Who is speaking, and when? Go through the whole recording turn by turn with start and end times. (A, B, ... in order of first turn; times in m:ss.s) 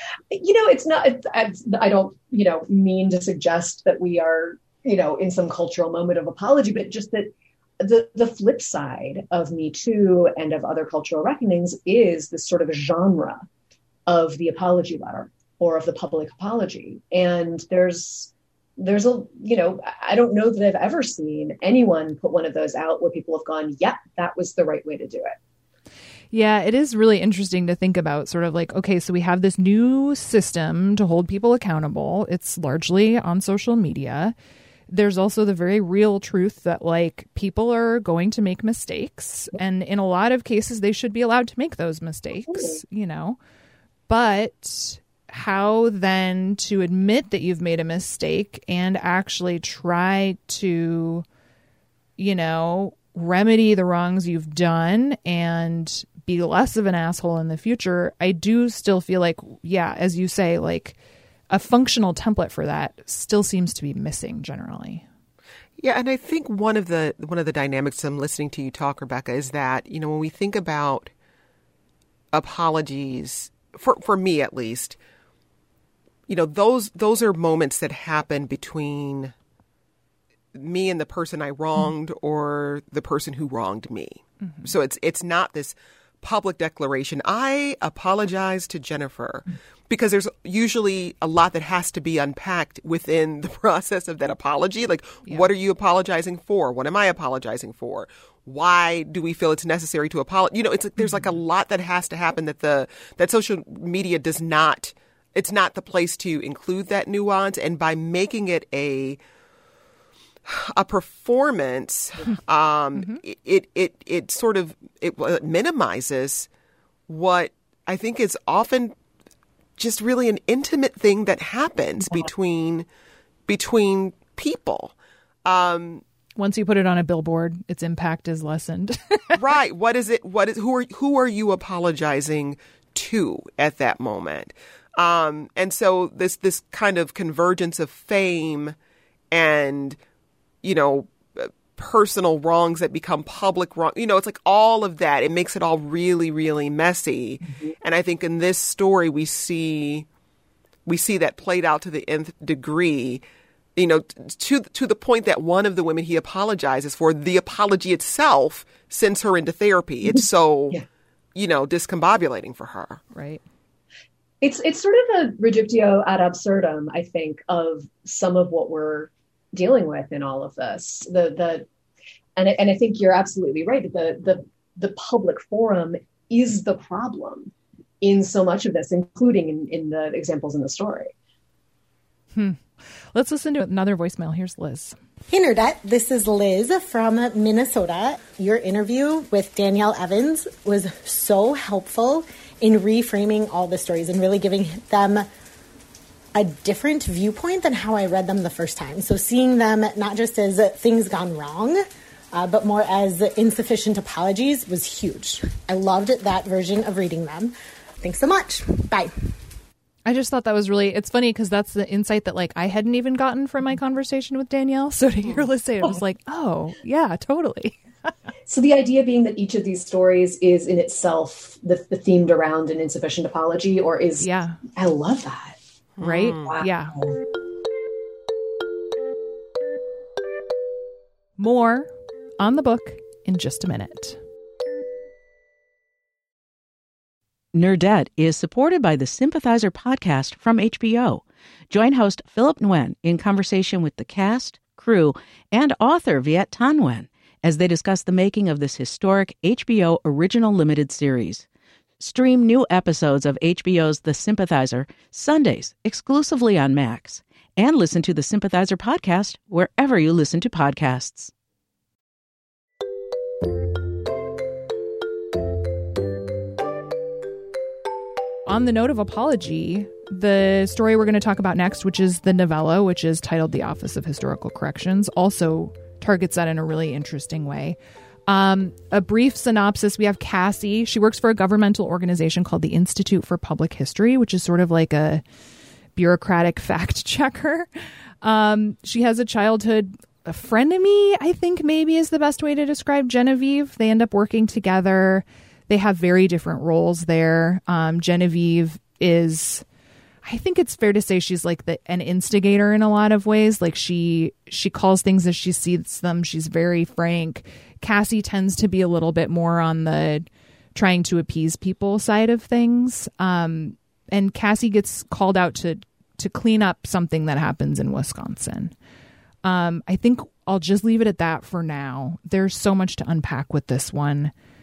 0:00.3-0:13.4 A
0:14.1-0:25.3 A
0:26.3-0:34.3 B
0:34.9-0:43.4 B
0:42.5-0:42.8 A
0:44.1-0:51.2 B
0:52.2-1:01.0 B
1:01.5-1:05.0 B
1:05.8-1:11.1 C
1:12.3-1:15.0 C
1:16.3-1:19.3 C
1:20.5-1:49.2 C
1:24.4-1:24.7 B
1:50.4-1:56.5 C
1:53.0-1:53.2 B
1:57.1-1:59.0 C
1:59.8-2:02.9 C
2:03.5-2:06.0 C
2:06.4-2:09.4 B
2:09.4-2:18.8 C
2:19.3-2:20.0 C
2:20.6-2:30.1 C
2:27.4-2:27.7 A
2:30.8-2:33.2 C
2:33.8-2:40.8 C
2:41.3-2:43.0 C
2:43.1-2:43.4 B
2:44.4-2:51.7 A
2:52.4-3:01.1 A
3:02.3-3:05.0 B
3:05.3-3:15.3 D
3:16.3-3:21.8 D
3:22.3-3:29.1 D
3:30.0-3:37.8 B
3:38.4-3:45.6 A
3:44.2-3:44.6 B
3:46.0-3:46.6 C
3:46.0-3:47.0 B
3:46.3-3:47.2 A
3:51.4-3:54.2 B
3:57.5-4:11.4 E
4:12.0-4:21.3 E
4:28.4-4:45.2 B
4:46.0-4:47.7 B
4:48.2-4:59.6 B
5:00.2-5:18.7 B
5:19.4-5:24.3 B